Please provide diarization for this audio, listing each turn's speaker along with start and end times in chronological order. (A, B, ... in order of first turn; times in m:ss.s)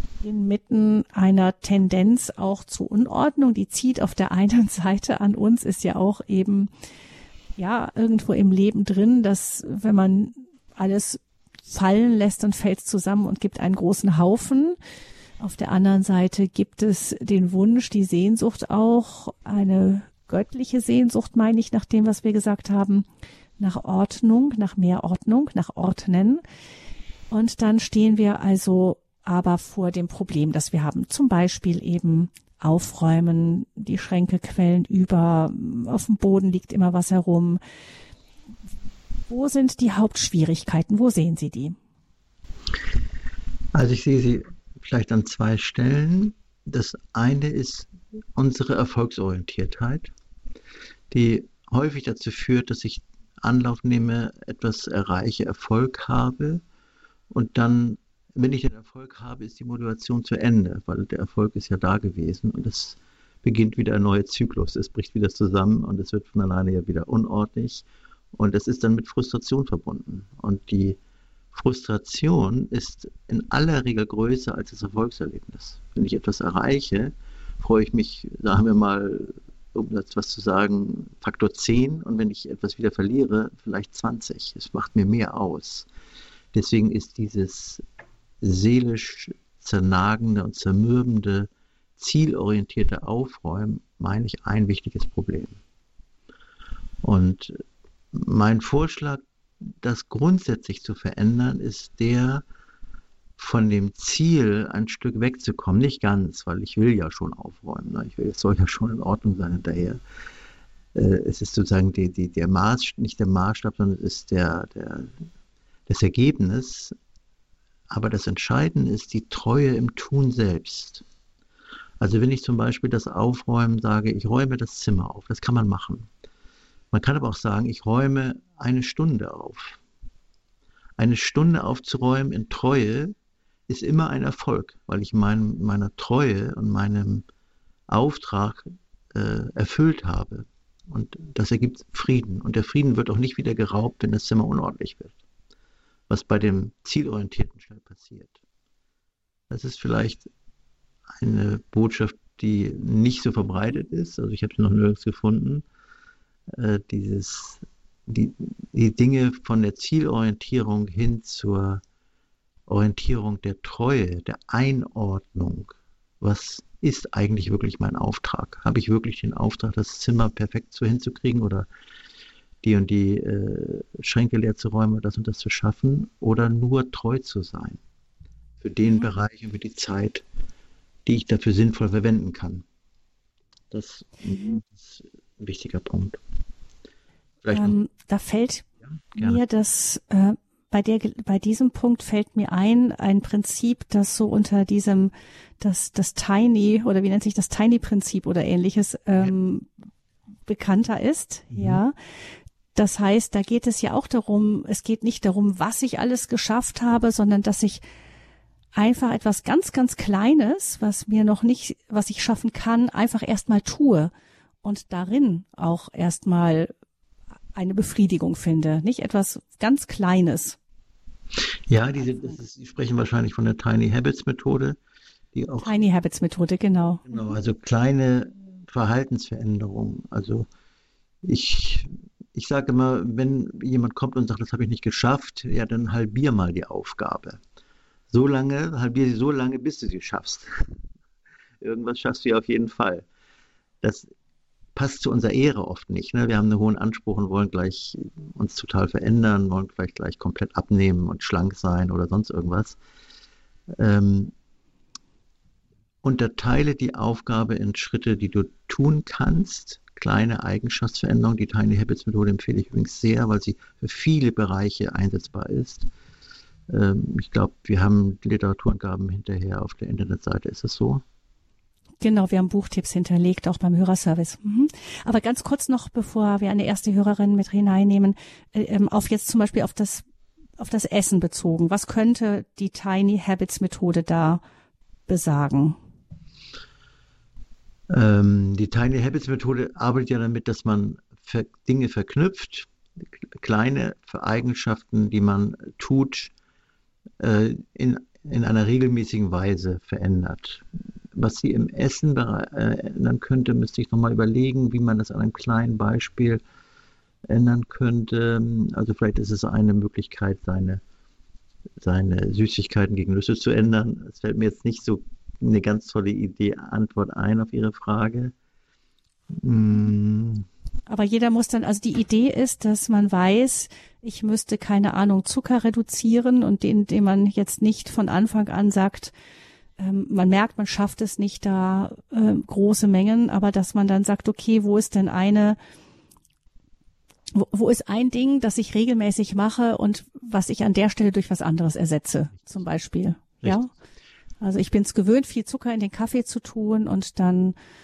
0:00.2-0:06.7 A
0:07.6-0:14.8 A
0:15.4-0:23.0 A
0:23.6-0:26.4 A
0:27.3-0:37.6 A
0:39.3-0:41.8 A
0:43.7-0:50.1 B
0:51.1-0:56.6 B
0:57.3-1:11.0 B
1:11.5-1:25.9 B
1:26.5-1:27.8 B
1:28.4-1:35.6 B
1:37.0-1:42.4 B
1:43.4-1:50.0 B
1:50.9-1:55.1 B
1:55.9-1:56.9 B
1:57.9-2:01.0 B
2:02.0-2:06.1 B
2:06.9-2:09.8 B
2:11.0-2:13.1 B
2:13.7-2:17.2 B
2:17.9-2:25.1 B
2:26.1-2:28.4 B
2:29.5-2:30.3 B
2:31.2-2:35.6 B
2:36.5-2:41.8 B
2:42.7-2:51.7 B
2:52.6-2:57.8 B
2:58.6-3:00.2 B
3:01.0-3:02.6 B
3:03.7-3:06.2 B
3:07.4-3:07.8 B
3:07.5-3:19.7 A
3:09.1-3:09.4 B
3:20.5-3:21.9 A
3:21.5-3:21.8 B
3:22.7-3:27.8 A
3:28.8-3:34.1 A
3:34.6-3:36.7 A
3:37.5-3:40.6 A
3:41.4-3:44.8 B
3:45.3-3:45.8 B
3:45.6-3:47.1 A
3:47.1-3:50.5 B
3:51.2-3:57.4 B
3:58.1-4:00.8 B
4:01.6-4:03.0 B
4:03.8-4:04.1 B
4:04.7-4:12.8 B
4:13.7-4:14.3 B
4:16.0-4:25.9 B
4:26.7-4:31.0 B
4:32.0-4:40.0 A
4:40.6-4:44.4 A
4:45.1-4:45.8 A
4:47.9-4:52.7 B
4:53.3-4:56.3 B
4:57.2-5:06.4 B
5:07.3-5:10.8 B
5:11.8-5:18.3 B
5:19.3-5:20.4 B
5:20.9-5:29.1 A
5:29.8-5:35.6 A
5:37.3-5:43.7 A
5:44.4-5:47.5 A